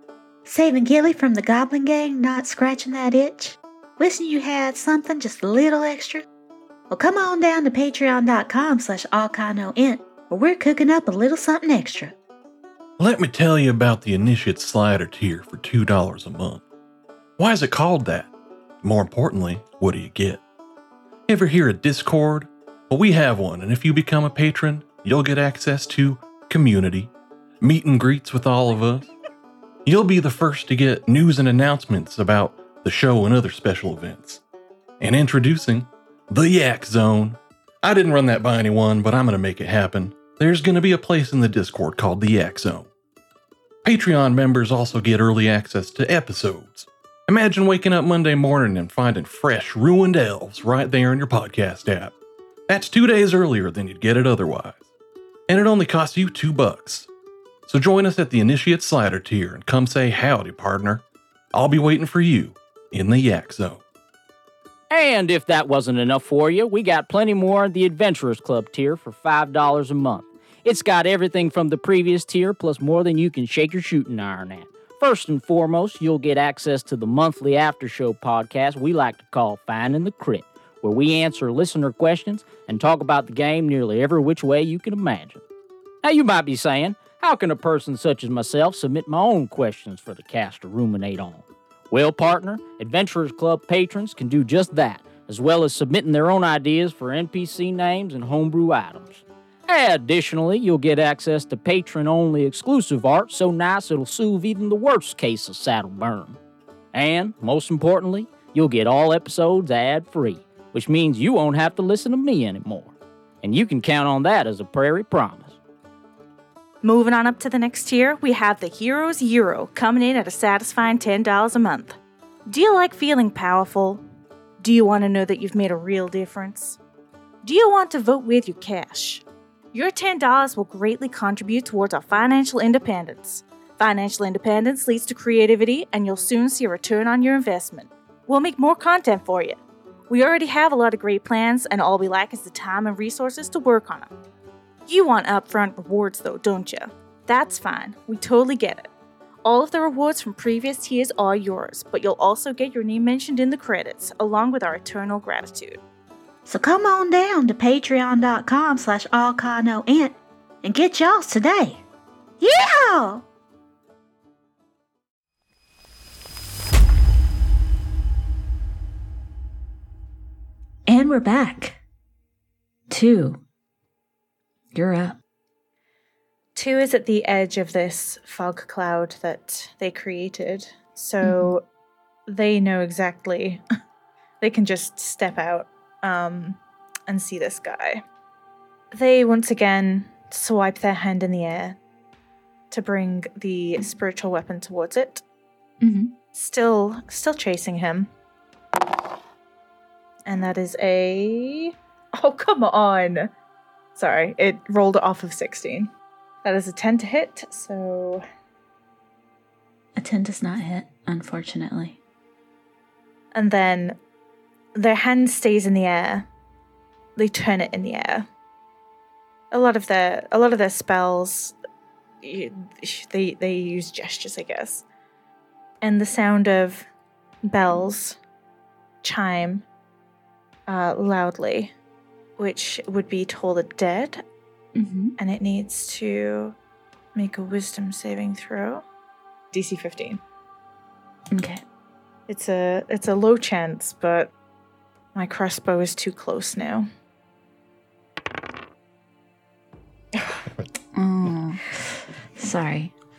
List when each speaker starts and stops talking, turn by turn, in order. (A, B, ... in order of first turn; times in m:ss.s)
0:00.4-0:06.2 A
0:06.9-0:12.1 A
0:13.0-0:16.6 B
0:17.4-0:18.3 B
0:18.8-0:20.4 B
0:21.3-0:29.1 B
0:29.8-0:34.4 B
0:35.0-0:42.9 B
0:43.8-0:52.1 B
0:52.7-0:54.9 B
0:55.5-0:57.1 B
0:57.7-1:03.8 B
1:04.9-1:25.4 C
1:26.0-1:46.4 C
1:46.9-1:55.6 C
1:56.8-2:04.0 D
2:04.6-2:06.8 D
2:07.4-2:19.6 D
2:20.1-2:24.1 D
2:24.9-2:28.9 D
2:29.4-2:35.8 D
2:36.4-2:41.8 A
2:42.4-2:43.2 A
2:50.9-2:51.8 A
2:52.9-2:53.4 A
2:54.7-2:55.2 A
2:56.6-3:01.6 D
3:01.2-3:01.5 A
3:02.3-3:03.6 D
3:04.4-3:08.0 D
3:08.9-3:11.8 D
3:12.7-3:15.2 D
3:15.8-3:16.1 A
3:16.3-3:18.1 D
3:20.3-3:23.3 D
3:24.0-3:25.9 D
3:26.4-3:28.2 D
3:30.0-3:32.0 A
3:33.3-3:34.0 D
3:34.7-3:36.3 D
3:37.2-3:38.3 D
3:39.5-3:41.5 D
3:42.2-3:44.8 D
3:45.8-3:46.9 D
3:47.4-3:48.2 D
3:49.0-3:49.6 D
3:50.7-3:51.7 D
3:52.4-3:54.2 D
3:54.8-3:55.2 A
3:55.2-3:56.6 D
3:57.1-3:58.8 D
3:59.5-4:00.2 D
4:01.3-4:01.6 A
4:02.3-4:04.3 D
4:05.1-4:06.9 D
4:10.9-4:12.9 A